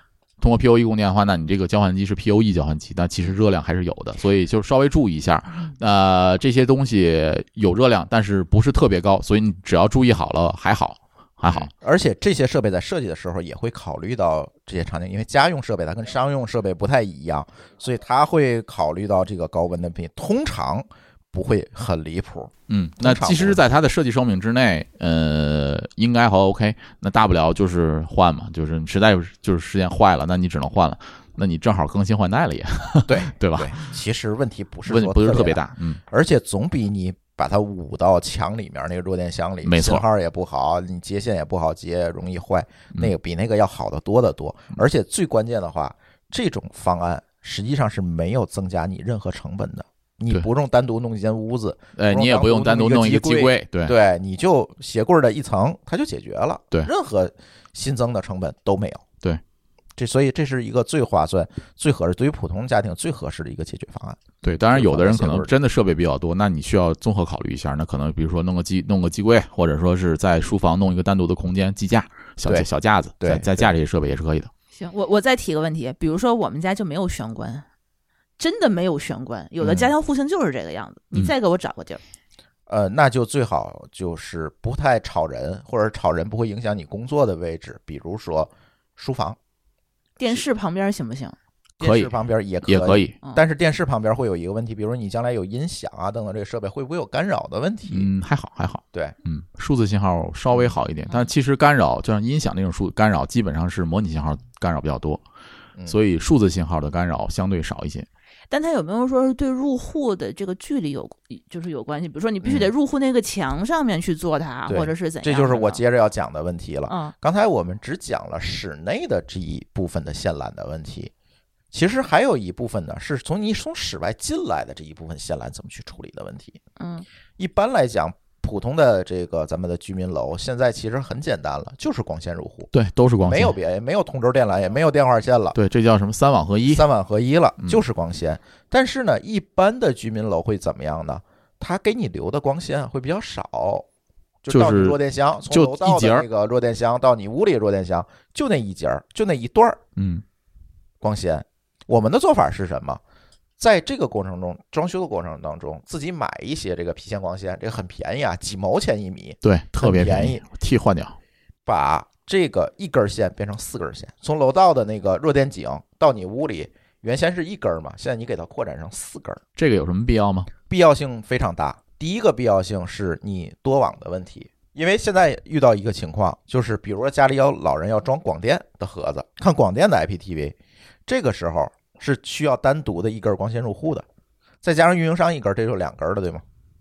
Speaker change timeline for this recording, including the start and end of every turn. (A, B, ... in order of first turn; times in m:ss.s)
0:00.4-0:11.7 A
0:11.4-0:23.6 B
0:22.7-0:33.8 A
0:33.1-0:59.0 B
0:34.9-0:36.0 A
0:39.6-0:40.0 A
0:52.0-0:53.9 A
1:00.0-1:05.5 B
1:04.4-1:14.5 A
1:13.2-1:13.7 B
1:14.7-1:17.6 C
1:18.4-1:22.0 C
1:19.6-1:19.9 B
1:22.7-1:29.4 B
1:30.2-1:31.4 C
1:31.8-1:38.1 B
1:31.8-1:32.1 A
1:32.6-1:33.1 A
1:37.9-1:45.2 A
1:45.9-1:48.1 A
1:48.5-1:55.8 C
1:52.4-1:52.7 B
1:54.7-2:01.1 B
1:56.9-1:57.1 C
2:01.7-2:06.6 B
2:06.8-2:07.0 C
2:07.4-2:12.7 B
2:12.7-2:13.5 A
2:13.2-2:15.6 B
2:15.5-2:16.8 A
2:16.7-2:23.8 B
2:24.4-2:29.8 B
2:24.5-2:26.2 A
2:30.0-2:30.2 A
2:31.0-2:33.0 B
2:33.6-2:40.4 B
2:39.4-2:41.2 A
2:41.6-2:49.4 B
2:49.6-2:50.5 A
2:50.7-3:00.5 B
3:01.1-3:04.0 B
3:04.6-3:06.4 B